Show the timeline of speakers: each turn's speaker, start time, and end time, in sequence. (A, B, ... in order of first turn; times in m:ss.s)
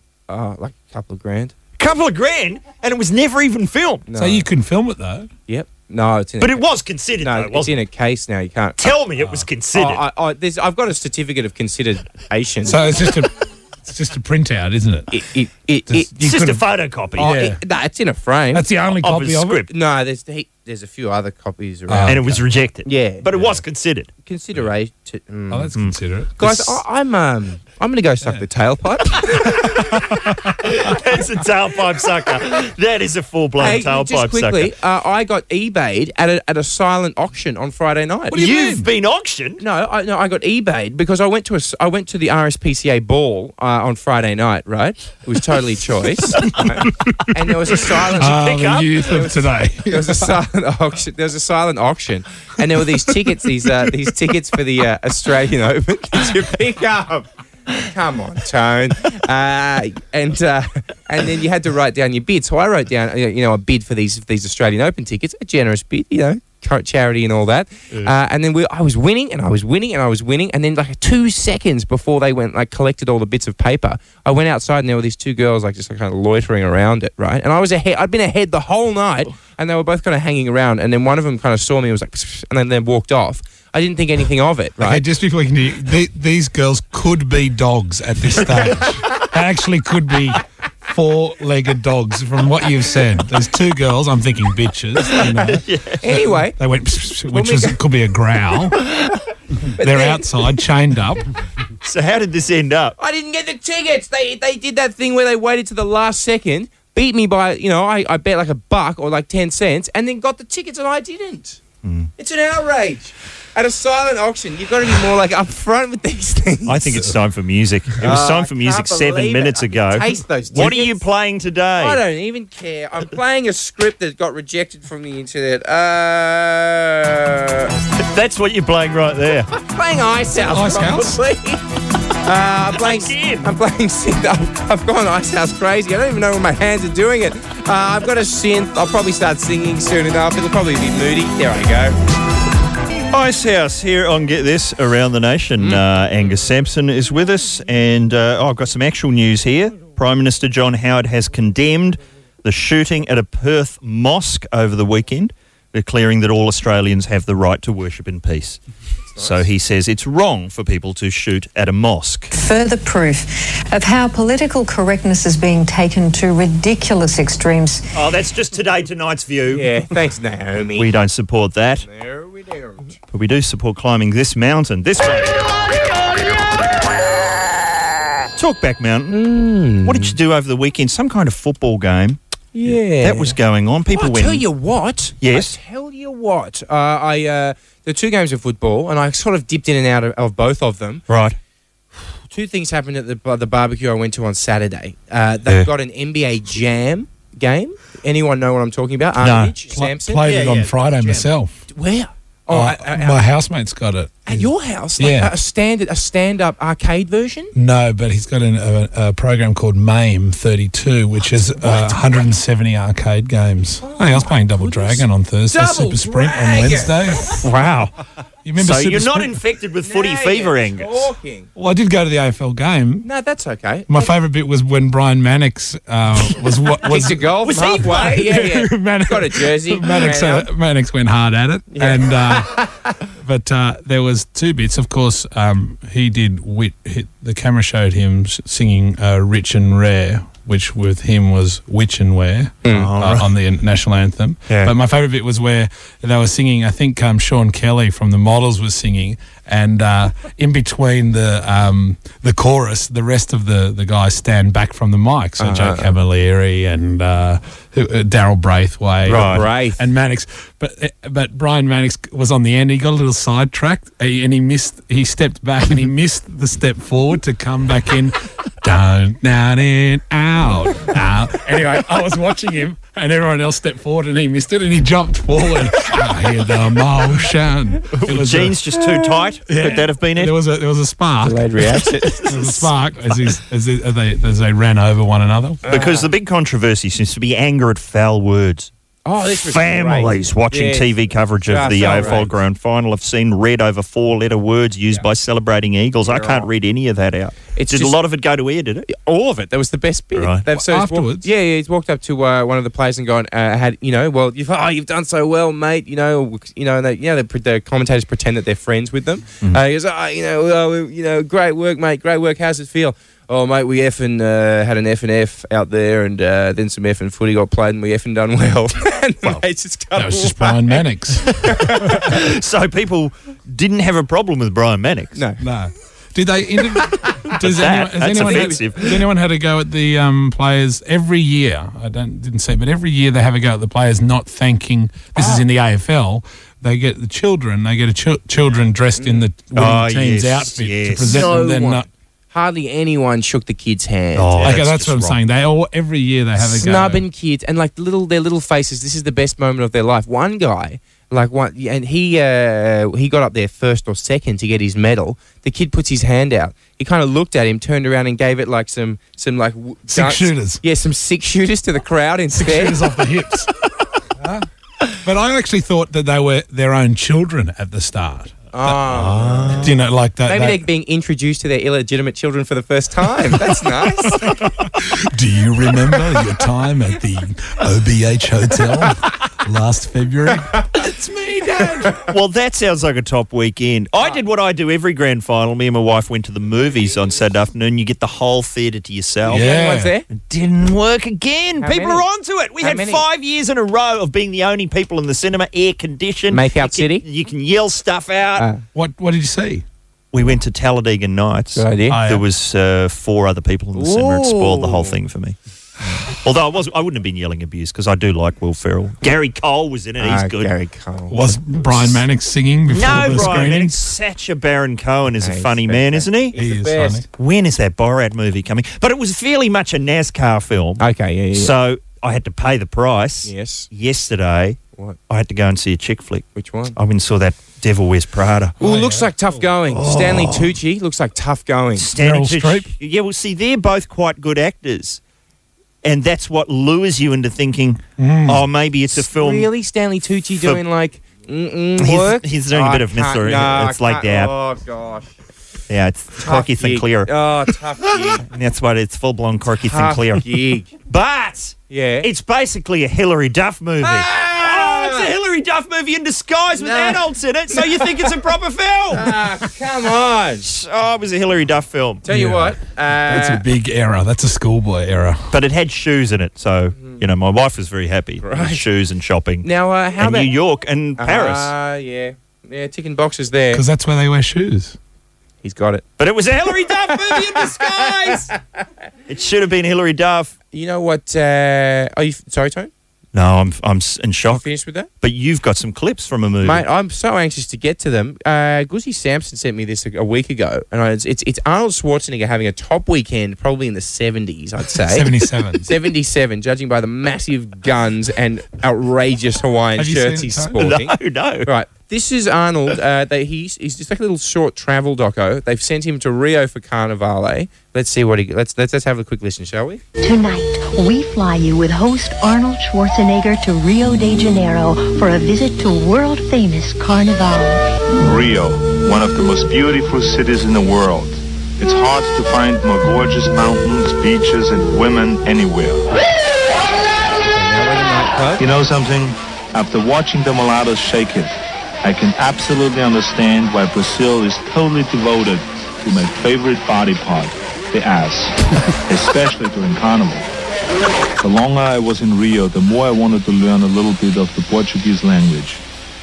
0:00.3-0:01.5 A
0:01.8-0:04.1 B
0:04.1-0:04.4 A
0:04.2-0:05.3 C
0:05.5-0:06.6 A
0:06.4-0:07.7 B
0:07.2-0:08.8 A
0:08.8-0:10.0 B
0:09.2-0:09.5 C
0:09.8-0:12.9 A
0:12.7-0:15.2 C
0:15.1-0:16.4 A
0:15.9-0:16.6 C
0:16.2-0:17.3 B
0:17.2-0:17.6 C
0:17.2-0:18.6 A
0:18.5-0:19.6 C
0:19.0-0:19.7 B
0:19.7-0:22.2 A
0:21.9-0:22.4 C
0:22.1-0:24.1 B
0:22.8-0:23.3 A
0:24.2-0:25.7 A
0:25.5-0:26.8 C
0:26.4-0:29.6 A
0:29.4-0:34.7 B
0:33.6-0:38.4 A
0:38.3-0:38.8 C
0:38.3-0:39.6 B
0:39.6-1:25.0 A
0:48.2-0:49.1 B
0:48.2-0:50.4 C
1:24.8-1:35.6 C
1:35.4-1:36.2 B
1:36.0-1:36.6 A
1:36.6-1:38.9 C
1:37.3-1:37.8 A
1:39.7-1:41.3 C
1:39.8-1:40.5 A
1:41.8-1:43.0 B
1:43.0-1:51.6 A
1:51.8-1:52.1 B
1:52.2-1:57.0 A
1:56.7-2:02.0 B
1:58.0-2:01.0 A
2:01.8-2:07.8 A
2:08.0-2:09.5 B
2:09.5-2:11.6 A
2:10.5-2:11.2 C
2:12.2-2:22.0 A
2:12.7-2:13.5 B
2:23.1-2:38.6 B
2:39.1-2:39.5 A
2:39.2-2:42.3 B
2:42.3-2:47.9 D
2:47.9-2:49.7 B
2:49.5-2:50.9 A
2:50.8-2:51.9 B
2:51.8-2:53.0 A
2:53.1-2:55.4 B
2:58.4-2:59.2 B
2:59.1-3:00.2 A
2:59.8-3:04.4 B
3:02.5-3:03.4 A
3:03.9-3:11.0 A
3:05.2-3:05.6 B
3:11.1-3:11.4 B
3:12.3-3:20.2 A
3:19.2-3:19.6 B
3:19.7-3:21.5 C
3:20.2-3:21.3 B
3:21.7-3:23.2 A
3:22.5-3:25.3 C
3:24.3-3:27.5 A
3:27.6-3:37.4 C
3:31.6-3:31.9 A
3:33.8-3:36.9 A
3:37.4-3:37.9 B
3:38.4-3:39.4 C
3:38.6-3:41.1 B
3:39.8-3:41.5 A
3:41.6-3:43.1 C
3:43.0-3:44.1 A
3:43.9-3:47.3 C
3:46.8-3:50.5 A
3:47.4-3:48.3 B
3:47.9-4:38.6 C
3:51.7-3:52.8 A
4:02.6-4:02.9 A
4:02.7-4:03.3 B
4:04.5-4:04.7 B
4:15.4-4:15.9 A
4:19.1-4:19.5 B
4:19.1-4:19.8 A
4:38.0-4:40.4 B
4:38.8-4:39.8 A
4:39.5-4:45.6 C
4:41.2-4:42.7 A
4:45.6-4:46.1 A
4:45.7-4:48.7 B
4:49.1-4:50.9 A
4:49.3-4:58.9 B
4:51.5-4:52.3 A
4:56.0-4:56.5 A
4:57.6-4:58.0 A
4:58.9-5:22.0 A
5:00.2-5:00.4 B
5:00.5-5:01.3 C
5:20.0-5:21.3 C
5:21.4-5:25.2 B
5:25.2-5:25.4 A
5:25.4-5:41.9 C
5:27.4-5:29.0 B
5:28.1-5:28.7 A
5:39.0-5:39.3 A
5:39.6-5:41.3 B
5:41.0-5:44.6 A
5:44.1-5:45.2 B
5:44.4-5:47.1 C
5:46.4-6:02.8 A
5:59.9-6:00.6 C
6:02.4-6:03.5 C
6:04.2-6:08.7 C
6:08.5-6:09.7 A
6:08.9-6:09.8 B
6:09.6-6:10.6 C
6:10.3-6:14.3 A
6:14.8-6:22.0 C
6:21.5-6:22.1 A
6:22.1-6:29.5 B
6:29.3-6:30.1 A
6:29.3-6:30.0 C
6:30.1-6:38.5 B
6:31.6-6:32.0 A
6:32.6-6:33.0 A
6:36.3-6:37.0 A
6:38.4-6:38.6 A
6:38.7-6:39.6 C
6:40.1-6:45.4 B
6:41.6-6:42.0 A
6:41.9-6:42.2 C
6:43.8-6:45.0 A
6:46.0-6:50.5 B
6:50.0-6:51.1 A
6:51.1-6:53.8 C
6:52.7-6:56.4 B
6:55.2-6:57.0 A
6:56.4-6:57.0 C
6:57.2-7:08.6 B
7:00.8-7:01.5 A
7:03.2-7:03.7 A
7:06.4-7:06.8 A
7:08.6-7:09.3 C
7:08.6-7:11.9 A
7:09.7-7:10.6 B
7:11.8-7:15.0 B
7:12.0-7:12.7 C
7:15.8-7:19.5 B
7:18.0-7:18.4 C
7:19.0-7:25.1 A
7:21.8-7:24.3 B
7:25.7-7:27.2 B
7:26.2-7:28.2 A
7:27.8-7:39.2 B
7:29.6-7:30.7 A
7:31.7-7:32.1 A
7:33.8-7:35.1 A
7:36.6-7:38.0 A
7:38.9-7:40.5 A
7:40.4-7:42.0 B
7:42.0-7:43.4 A
7:42.1-7:45.3 C
7:45.3-7:51.5 B
7:48.2-7:48.6 A
7:49.4-7:50.3 A
7:51.0-7:53.6 A
7:53.5-7:54.8 C
7:55.4-7:55.8 A
7:56.0-7:58.3 B
7:56.6-7:58.4 A
7:59.1-8:00.3 B
8:00.5-8:02.7 A
8:03.1-8:04.5 B
8:04.3-8:04.9 A
8:05.0-8:06.6 B
8:06.4-8:15.1 A
8:14.9-8:15.7 C
8:15.7-8:29.8 A
8:19.8-8:20.6 C
8:20.6-8:21.5 B
8:30.0-8:37.7 E
8:38.0-8:45.8 F
8:47.2-8:48.4 A
8:48.4-9:00.3 F
9:01.2-9:05.6 F